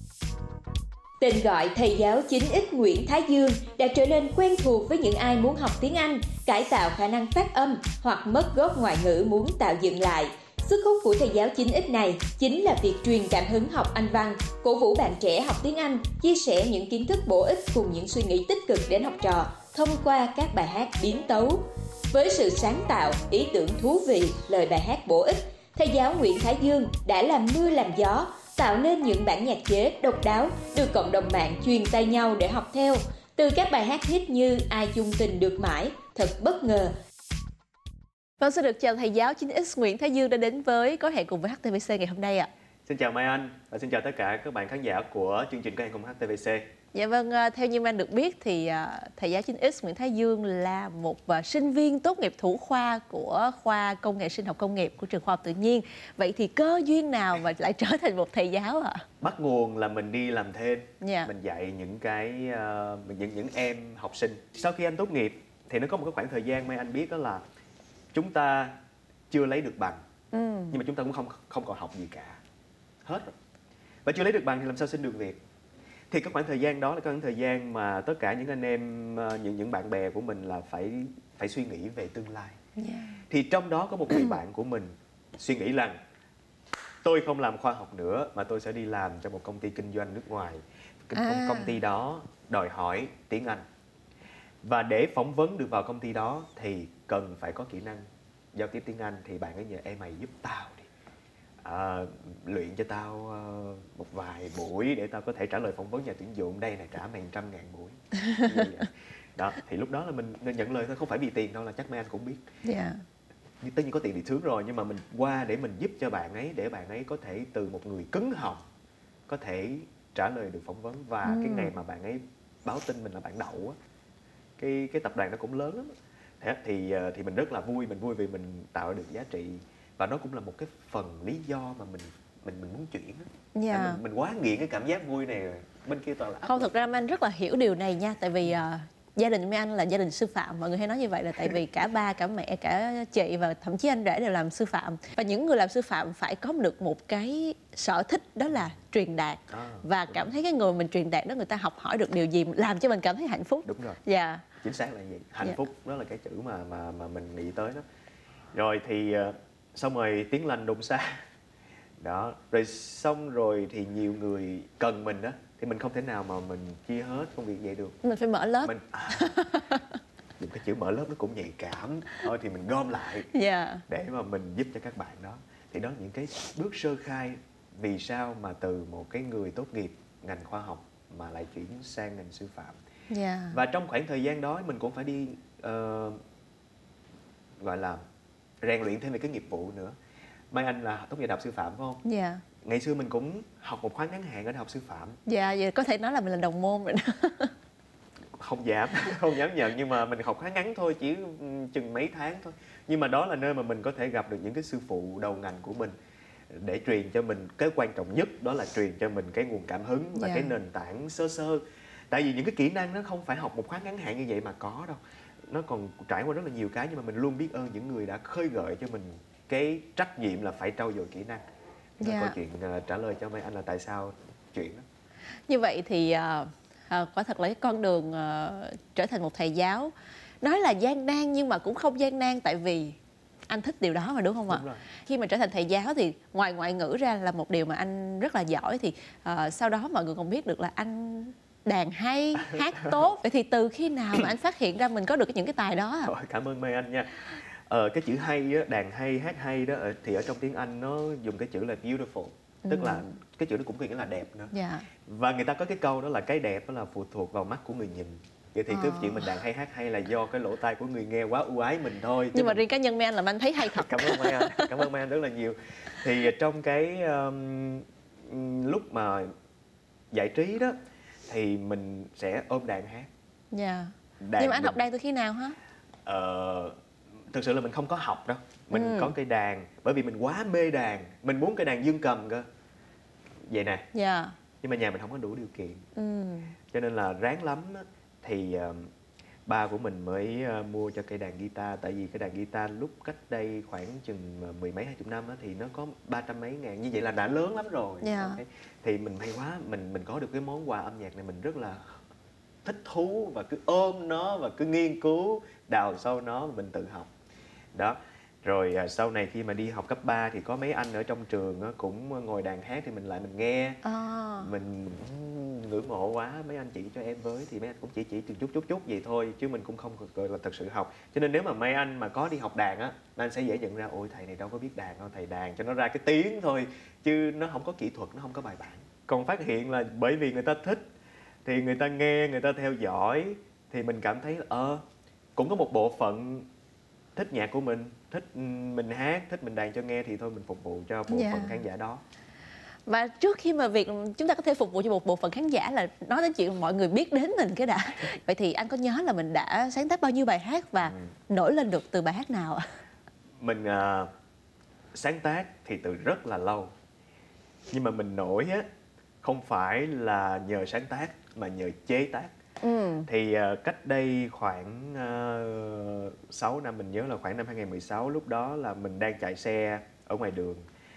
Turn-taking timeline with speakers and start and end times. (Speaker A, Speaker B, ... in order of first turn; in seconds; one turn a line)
Speaker A: 1.2-36.9
Speaker B: 38.4-42.5
Speaker C: 42.9-46.7
Speaker B: 46.9-59.0
Speaker C: 59.2-67.4
Speaker B: 61.0-61.3
Speaker C: 68.1-68.8
Speaker C: 69.3-70.0
Speaker B: 70.3-70.8
Speaker C: 70.7-72.4
Speaker C: 73.0-73.3
Speaker C: 74.0-75.4
Speaker C: 76.1-82.6
Speaker B: 82.8-83.2
Speaker C: 83.3-86.0
Speaker C: 87.0-93.7
Speaker B: 91.1-91.7
Speaker C: 94.6-100.9
Speaker C: 101.6-112.4
Speaker B: 112.6-113.0
Speaker C: 113.6-118.6
Speaker C: 119.3-123.8
Speaker B: 121.2-121.7
Speaker C: 124.6-136.7
Speaker B: 133.5-134.0
Speaker B: 136.4-154.4
Speaker C: 149.5-150.3
Speaker C: 153.6-154.0
Speaker C: 154.6-157.8
Speaker C: 158.5-161.2
Speaker C: 162.0-168.0
Speaker B: 168.0-169.8
Speaker C: 168.6-169.3
Speaker C: 170.4-173.3
Speaker B: 173.3-173.8
Speaker C: 173.9-182.8
Speaker B: 183.1-183.6
Speaker C: 183.5-186.2
Speaker C: 187.6-188.0
Speaker C: 188.6-189.9
Speaker C: 190.5-192.0
Speaker B: 192.0-192.4
Speaker C: 192.6-195.2
Speaker B: 195.3-197.5
Speaker C: 198.4-205.9
Speaker C: 206.5-221.4
Speaker B: 210.1-210.5
Speaker B: 222.0-222.3
Speaker C: 222.0-224.8
Speaker B: 225.5-232.9
Speaker B: 233.5-246.1
Speaker C: 234.5-234.8
Speaker C: 242.4-242.9
Speaker C: 246.1-254.5
Speaker B: 252.7-253.1
Speaker B: 254.5-254.8
Speaker C: 255.1-262.6
Speaker B: 258.7-259.3
Speaker B: 262.3-264.7
Speaker C: 263.7-269.3
Speaker C: 270.1-273.1
Speaker B: 273.5-275.6
Speaker C: 274.2-274.8
Speaker C: 276.1-276.8
Speaker C: 277.3-282.4
Speaker B: 278.7-279.1
Speaker C: 283.5-283.8
Speaker B: 283.9-284.3
Speaker C: 284.6-285.8
Speaker B: 285.9-286.5
Speaker C: 286.7-288.9
Speaker C: 289.5-302.0
Speaker B: 298.0-298.4
Speaker C: 302.6-307.1
Speaker C: 307.7-313.8
Speaker B: 313.8-314.5
Speaker C: 314.4-330.9
Speaker C: 331.4-334.8
Speaker C: 335.4-336.5
Speaker C: 337.1-342.0
Speaker B: 341.1-341.6
Speaker B: 342.9-352.6
Speaker C: 350.8-351.1
Speaker C: 353.4-354.1
Speaker C: 354.9-356.7
Speaker C: 357.7-358.7
Speaker C: 359.2-362.3
Speaker B: 362.6-363.1
Speaker C: 363.1-370.6